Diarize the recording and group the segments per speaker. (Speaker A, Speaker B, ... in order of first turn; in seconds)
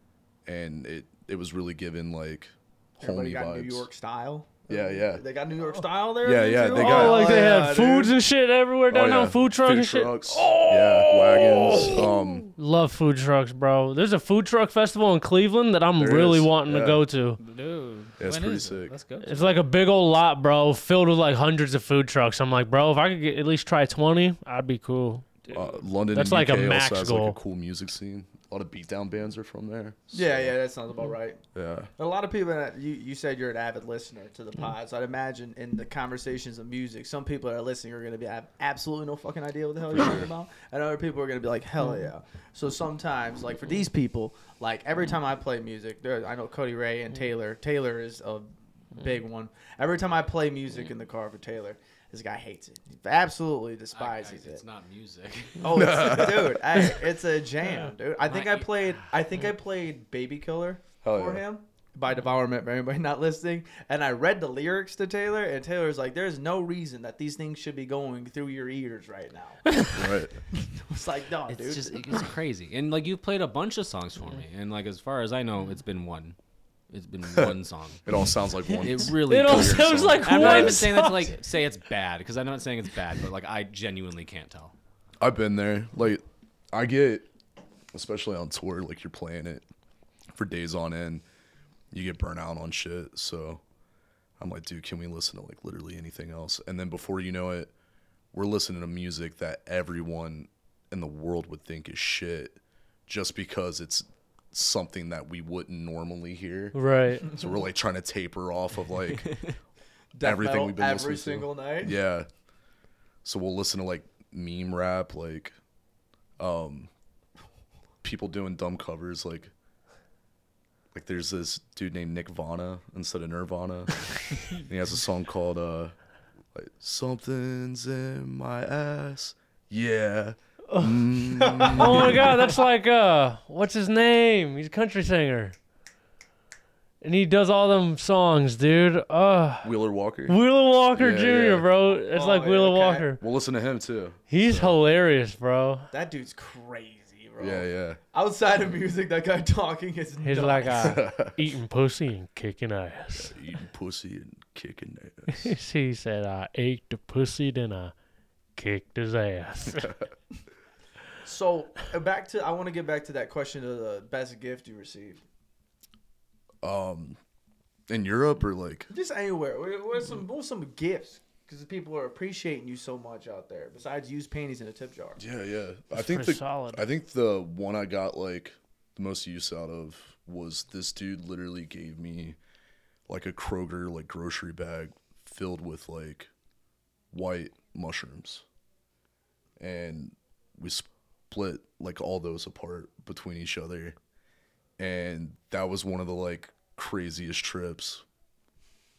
Speaker A: 0.5-3.9, 4.7-5.2, 6.2-7.3, 8.9-12.5, 15.9-17.0, 18.2-18.9, 25.5-30.6, 31.5-31.9, 39.9-40.3, 55.7-56.9, 61.0-61.4, 69.9-70.3, 77.3-80.9, 85.2-87.2, 87.9-89.6, 90.3-91.2, 91.9-93.6, 94.4-97.7, 98.3-109.4, 110.2-112.3, 113.2-115.5, 116.4-116.9, 118.0-119.5, 120.9-125.9, 126.5-132.3, 139.6-140.4, 140.9-141.7, 143.2-144.7, 147.4-148.0, 150.7-151.4, 153.1-155.5, 166.6-167.2, 167.9-168.9, 175.2-182.4, 183.1-186.3, 187.1-188.4, 189.6-193.9, 194.8-198.0
Speaker B: 3.0-8.1, 30.1-31.4, 32.0-54.6, 55.6-69.8, 70.6-72.1, 110.1-112.0, 131.5-131.8, 142.1-143.1, 145.9-151.1, 161.2-165.2, 168.9-175.2
Speaker C: 6.7-17.4, 19.2-25.5, 26.1-27.4, 41.8-42.1, 79.2-81.3, 106.7-107.4, 130.7-135.5, 137.0-139.7, 140.3-143.2, 144.3-145.9, 150.2-153.3, 155.3-157.9, 158.6-159.9, 175.9-176.9
Speaker D: 17.4-19.6
Speaker E: 53.9-56.0, 58.2-59.1, 71.5-76.3, 76.9-78.0, 78.7-84.7